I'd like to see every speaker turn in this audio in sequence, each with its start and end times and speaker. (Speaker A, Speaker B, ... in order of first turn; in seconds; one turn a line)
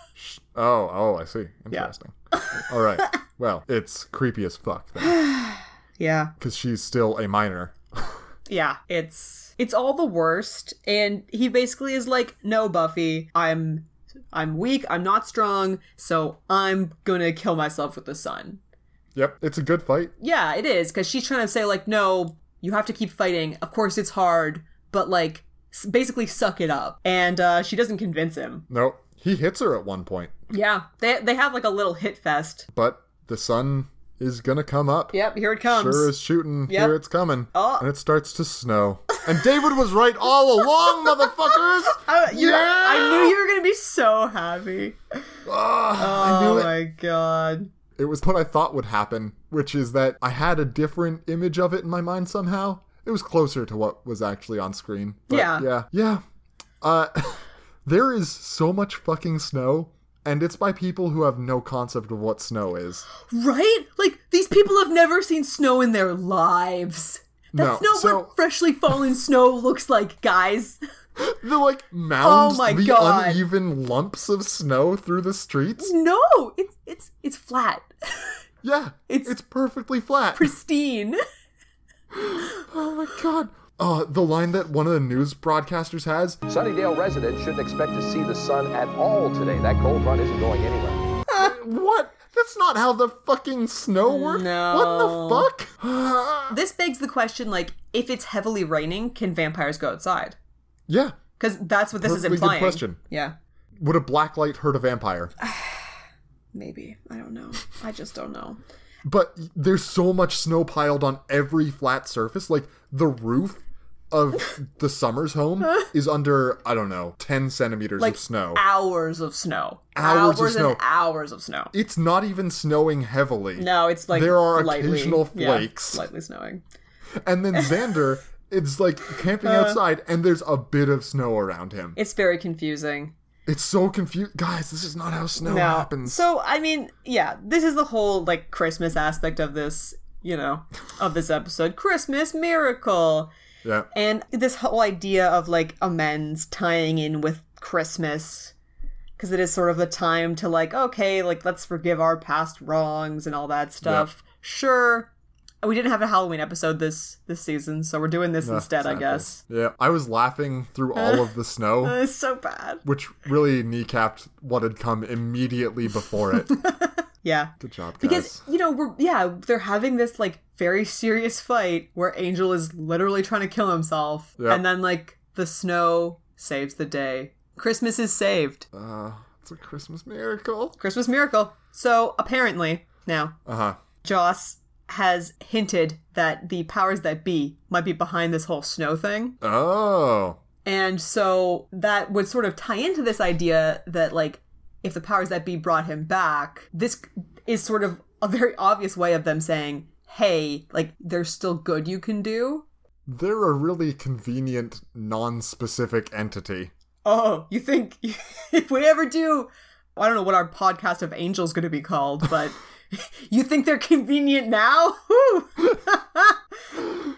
Speaker A: 0.2-5.2
Speaker B: 1.7-2.6
Speaker B: 5.0-6.3
Speaker A: 6.4-8.2
Speaker B: 8.5-18.6
Speaker A: 19.1-20.1
Speaker B: 20.2-28.7
Speaker A: 28.7-30.4
Speaker B: 30.5-32.7
Speaker A: 32.7-43.4
Speaker B: 35.1-36.2
Speaker B: 36.7-37.0
Speaker B: 37.5-37.9
Speaker B: 41.9-45.2
Speaker A: 45.5-46.8
Speaker B: 46.0-47.7
Speaker A: 48.0-56.2
Speaker B: 55.3-55.7
Speaker A: 56.8-63.1
Speaker B: 63.3-70.8
Speaker A: 67.5-68.3
Speaker A: 71.2-75.9
Speaker B: 72.2-73.4
Speaker B: 75.8-78.3
Speaker A: 78.6-80.5
Speaker B: 79.1-79.3
Speaker B: 80.3-81.2
Speaker A: 82.1-86.4
Speaker C: 86.5-91.0
Speaker A: 91.3-96.6
Speaker B: 94.0-95.5
Speaker B: 96.5-100.4
Speaker A: 100.9-101.2
Speaker B: 101.4-103.3
Speaker A: 102.0-103.0
Speaker A: 103.8-105.3
Speaker B: 105.4-105.9
Speaker B: 106.5-108.6
Speaker A: 109.0-118.6
Speaker B: 118.0-121.7
Speaker A: 120.0-120.8
Speaker A: 121.7-126.0
Speaker B: 123.6-126.6
Speaker A: 127.2-132.0
Speaker B: 129.4-129.8
Speaker B: 132.0-133.1
Speaker A: 133.5-136.2
Speaker B: 135.4-143.3
Speaker B: 143.9-148.5
Speaker B: 149.2-155.1
Speaker A: 153.8-154.1
Speaker B: 155.6-159.4
Speaker A: 158.4-162.0
Speaker B: 161.0-161.3
Speaker B: 161.8-162.8
Speaker A: 162.8-166.6
Speaker B: 166.5-178.7
Speaker A: 167.6-168.4
Speaker A: 174.4-174.7
Speaker A: 178.7-180.8
Speaker B: 180.8-183.4
Speaker A: 183.5-183.8
Speaker B: 184.0-189.4
Speaker A: 189.4-190.4
Speaker B: 190.7-202.7
Speaker A: 203.1-206.7
Speaker B: 207.1-216.4